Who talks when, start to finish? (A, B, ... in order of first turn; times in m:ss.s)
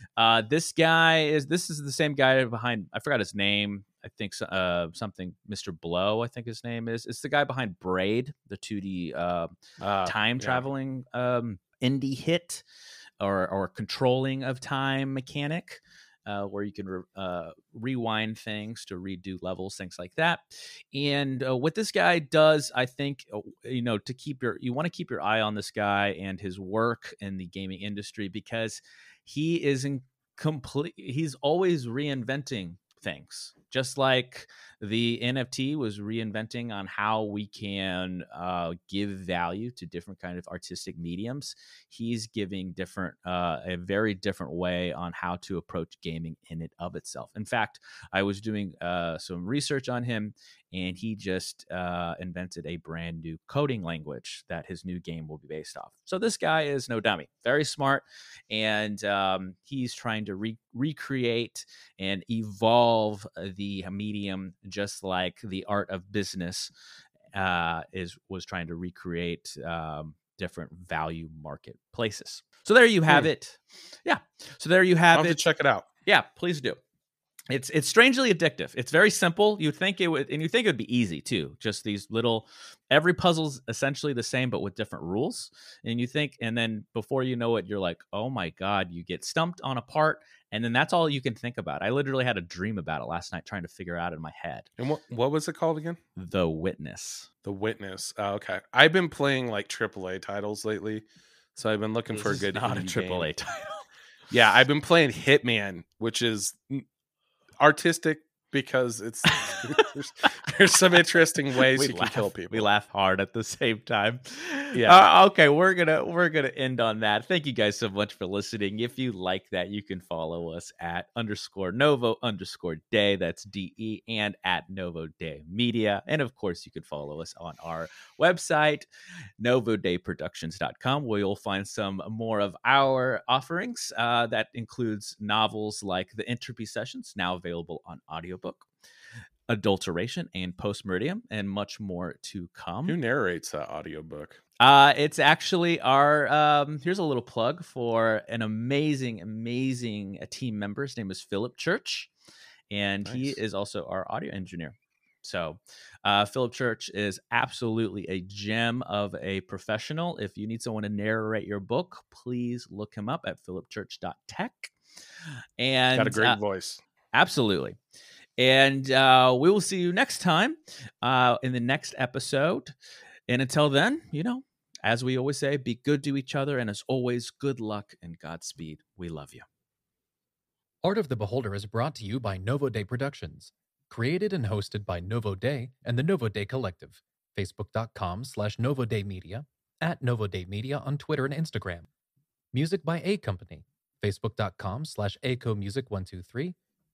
0:00.2-0:12.6 A
0:09.8-0:10.6 B
0:13.2-1:06.7 A
1:07.3-1:15.4 A
1:15.1-1:15.9 B
1:16.1-1:16.8 A
1:17.5-1:34.7 A
1:34.8-1:36.0 B
1:36.2-1:37.3 A
1:37.4-1:41.0 B
1:41.6-1:43.3 B
1:42.1-1:43.8 A
1:44.3-1:46.9 B
1:47.6-1:52.7 B
1:49.4-1:49.9 A
1:51.7-2:08.9 A
1:54.7-1:55.1 B
2:09.4-2:18.7 A
2:19.5-2:23.0 A
2:22.9-2:24.4 B
2:24.6-2:32.1 A
2:32.7-2:44.7 A
2:33.0-2:33.4 B
2:45.6-2:46.4 A
2:45.9-2:46.8 B
2:47.1-2:47.8 A
2:48.4-2:52.7 A
2:53.3-2:59.5 A
3:00.8-3:11.9 C
3:12.5-3:16.6 C